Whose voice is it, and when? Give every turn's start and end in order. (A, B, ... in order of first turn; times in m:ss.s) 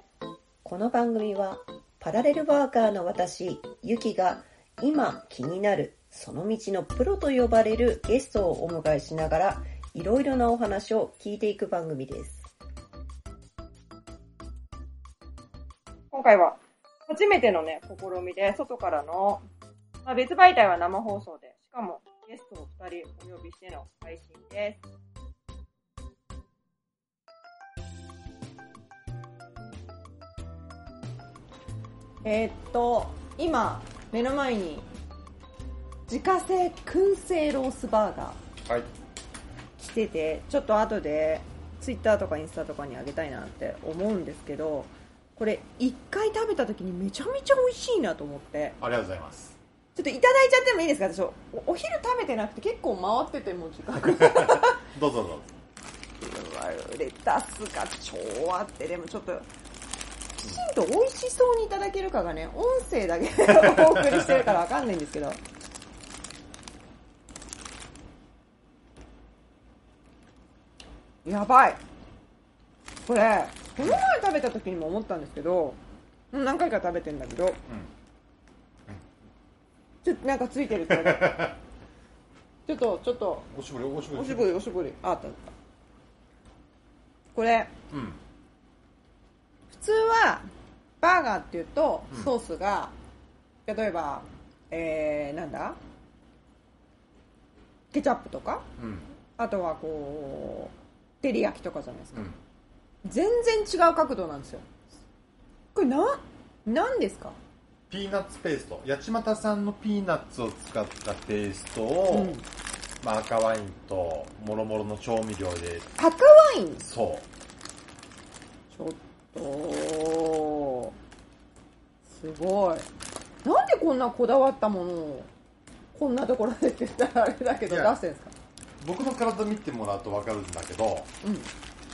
0:00.6-0:12.5 A
0:16.1-0:19.4 B
0:20.0-0:24.8 B
0:32.2-0:34.9 B
0:36.1-0:38.4 B
0:39.8-0:48.8 B
0:48.8-0:49.6 C
0:49.9-0:54.8 B
0:54.0-0:55.5 C
0:56.2-0:59.5 B
1:00.4-1:05.4 B
1:03.6-1:04.3 C
1:11.2-1:11.8 B
1:13.0-1:15.8 B
1:16.3-1:17.6 B
1:20.0-1:21.5 B
1:20.8-1:21.6 C
1:22.6-1:23.5 B
1:23.5-1:24.5 C
1:24.1-1:25.5 B
1:27.3-1:27.7 B
1:27.9-1:28.2 C
1:29.7-1:30.4 B
1:31.0-1:32.9 B
1:33.6-1:35.8 B
1:37.9-1:38.6 B
1:38.8-1:39.1 C
1:39.4-1:42.3 B
1:42.1-1:42.4 C
1:43.0-1:44.6 B
1:45.7-1:47.4 B
1:47.9-1:52.4 C
1:52.1-1:52.4 B
1:53.0-1:55.9 C
1:56.0-1:56.8 B
1:56.8-1:57.2 C
1:58.7-2:00.9 B
2:02.0-2:02.8 B
2:03.4-2:05.3 B
2:05.9-2:08.3 B
2:07.7-2:08.0 C
2:08.8-2:11.1 C
2:11.2-2:11.5 B